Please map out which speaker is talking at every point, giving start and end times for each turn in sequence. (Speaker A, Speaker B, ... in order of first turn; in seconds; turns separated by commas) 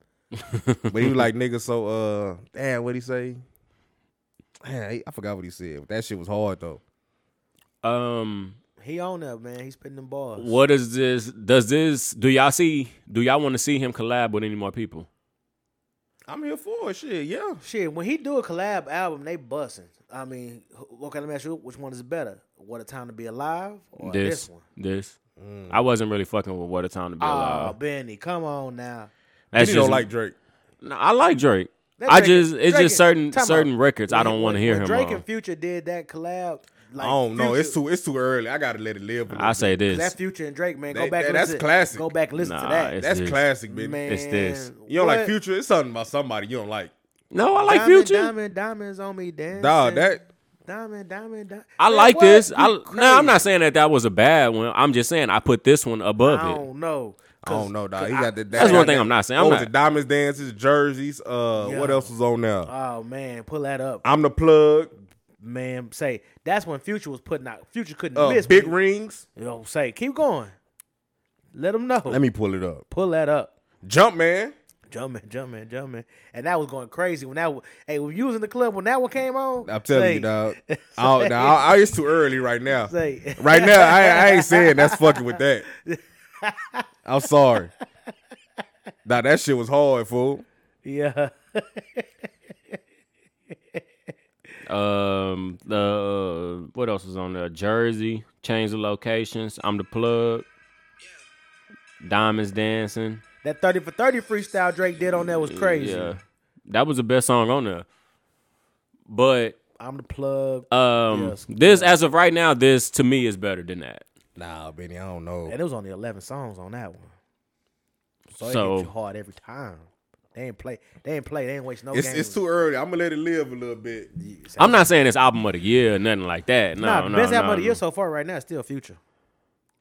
Speaker A: 0.4-1.1, Speaker B: 0.9-3.4, Speaker B: 4.6-6.8, Speaker A: 7.8-8.6, Speaker C: 8.8-10.6, Speaker A: 10.4-15.1, Speaker B: 16.3-17.6, Speaker C: 17.6-24.6, Speaker A: 24.0-25.1, Speaker B: 25.4-25.8, Speaker A: 25.7-27.7, Speaker C: 27.2-29.1, Speaker A: 29.5-30.1, Speaker B: 29.5-30.3, Speaker A: 30.8-35.2, Speaker C: 32.0-37.8, Speaker B: 37.0-39.8, Speaker A: 39.3-40.1, Speaker C: 39.9-43.0, Speaker B: 40.9-42.1, Speaker A: 42.4-43.4, Speaker B: 43.0-44.0, Speaker C: 43.7-45.3, Speaker A: 44.1-44.7, Speaker B: 44.9-46.9, Speaker A: 47.3-48.3, Speaker C: 47.6-50.1, Speaker B: 49.5-50.2, Speaker C: 50.6-53.5, Speaker A: 51.8-56.6, Speaker C: 56.2-59.1, Speaker B: 57.4-62.7, Speaker A: 58.5-59.7, Speaker C: 61.5-62.1, Speaker C: 62.6-64.0, Speaker B: 64.0-64.9, Speaker C: 65.4-68.7, Speaker B: 68.1-69.2, Speaker C: 69.3-70.5, Speaker C: 71.5-72.2, Speaker B: 72.1-72.8, Speaker C: 72.9-73.5, Speaker B: 73.8-74.5, Speaker C: 74.9-81.7, Speaker B: 79.6-85.7, Speaker C: 82.9-86.8, Speaker B: 87.0-87.7, Speaker B: 89.0-90.4, Speaker C: 90.8-92.0, Speaker A: 94.7-100.5, Speaker A: 102.0-103.2, Speaker C: 103.4-106.2, Speaker A: 105.5-107.8, Speaker A: 109.1-109.6, Speaker C: 109.8-111.9, Speaker A: 110.7-114.0, Speaker B: 114.4-115.5, Speaker C: 115.5-117.1, Speaker A: 118.4-118.9, Speaker C: 118.4-122.4, Speaker B: 121.9-124.1, Speaker C: 124.1-124.9, Speaker A: 124.6-127.8, Speaker C: 126.8-129.0